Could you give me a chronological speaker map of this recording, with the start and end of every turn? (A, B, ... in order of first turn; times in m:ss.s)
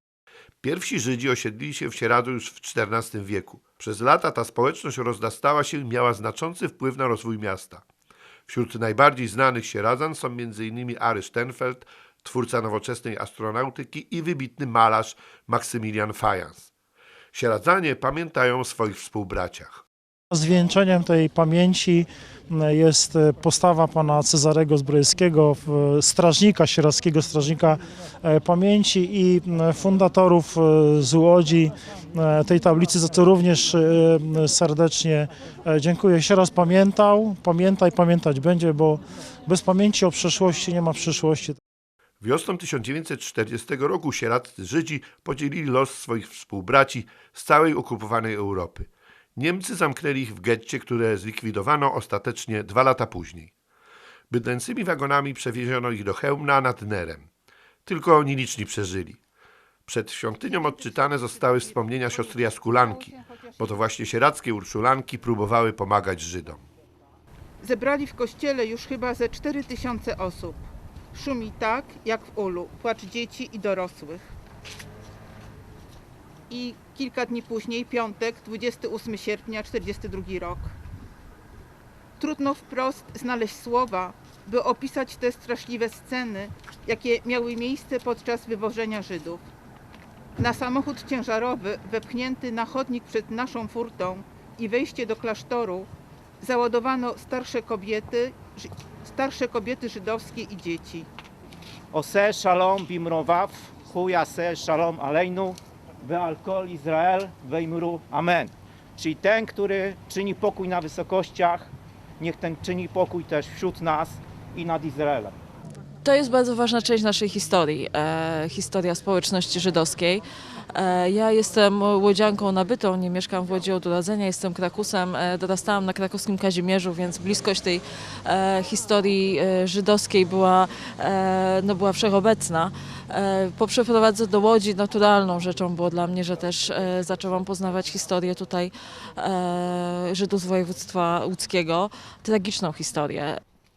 0:00.6-0:07.8 A
0:08.5-0:16.7 A
0:17.3-0:19.8 A
0:20.3-0:41.6 B
0:42.2-0:53.5 A
0:54.3-0:57.3 A
0:57.9-0:59.2 A
0:59.9-1:06.6 A
1:00.4-1:03.9 C
1:07.6-1:14.3 C
1:16.5-1:20.8 C
1:22.2-1:29.4 C
1:30.4-1:35.9 C
1:36.4-1:41.1 C
1:41.9-1:55.4 D
1:56.0-2:23.4 E